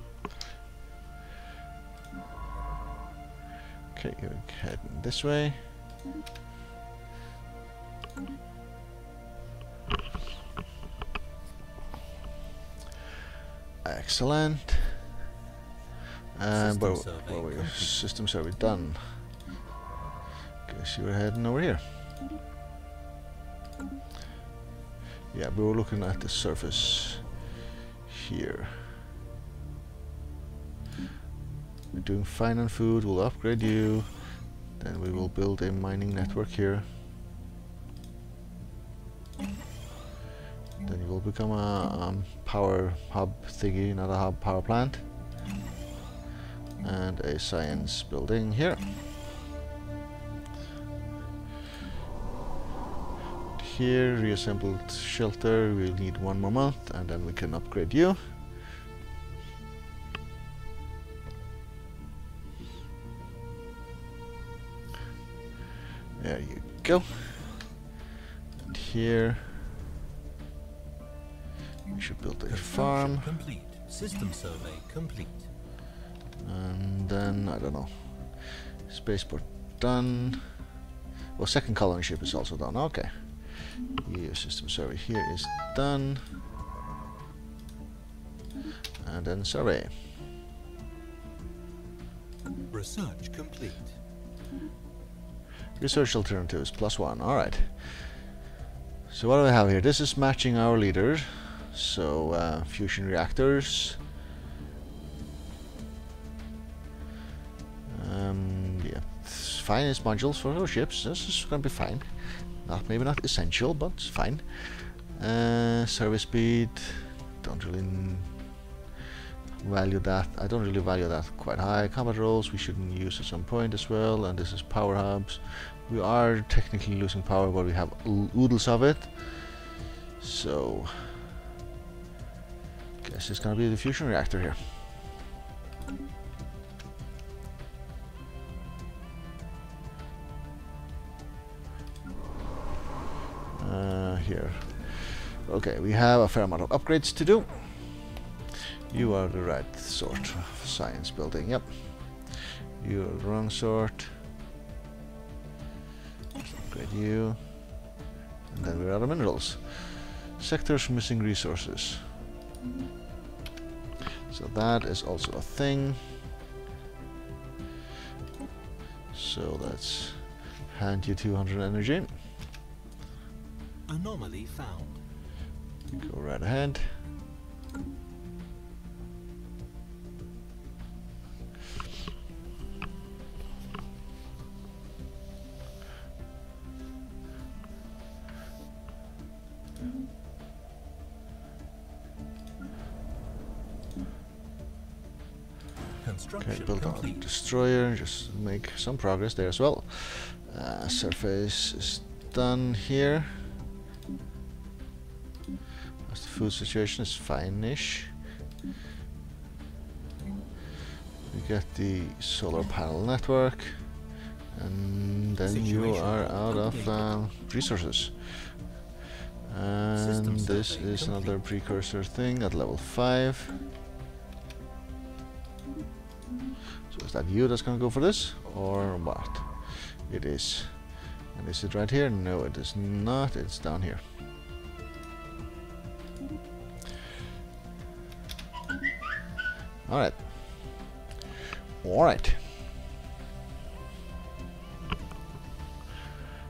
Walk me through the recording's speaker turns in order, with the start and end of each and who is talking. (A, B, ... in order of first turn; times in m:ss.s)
0:03.9-0:05.7 A
0:13.8-0:15.0 A
0:16.4-0:19.2 A
0:16.5-0:18.0 B
0:20.7-0:21.8 A
0:25.3-0:27.3 A
0:28.1-0:29.0 A
0:31.9-0:34.1 A
0:34.8-0:36.9 A
0:40.8-0:45.0 A
0:46.8-0:48.9 A
0:53.6-0:58.2 A
1:06.2-1:07.7 A
1:08.6-1:09.7 A
1:11.9-1:13.3 A
1:12.5-1:15.5 B
1:16.4-1:20.6 A
1:21.4-1:26.4 A
1:29.0-1:29.9 A
1:32.7-1:34.0 B
1:35.8-1:38.2 A
1:39.1-1:44.0 A
1:47.9-1:58.4 A
1:59.6-2:09.6 A
2:10.2-2:11.3 A
2:13.0-2:14.8 A
2:23.5-2:28.1 A
2:28.9-2:34.2 A
2:36.6-2:37.8 A
2:38.5-2:42.1 A
2:44.3-2:46.2 A
2:49.1-2:52.2 A
2:53.9-2:55.0 B
2:55.9-2:57.0 A
3:16.0-3:17.3 B
3:16.4-3:23.5 A
3:26.1-3:28.1 A
3:31.3-3:33.9 A
3:34.5-3:38.6 A
3:35.4-3:37.2 B
3:39.5-3:43.6 A
3:39.9-3:41.4 B
3:46.9-3:54.0 A
3:59.9-4:00.8 A
4:01.8-4:02.6 A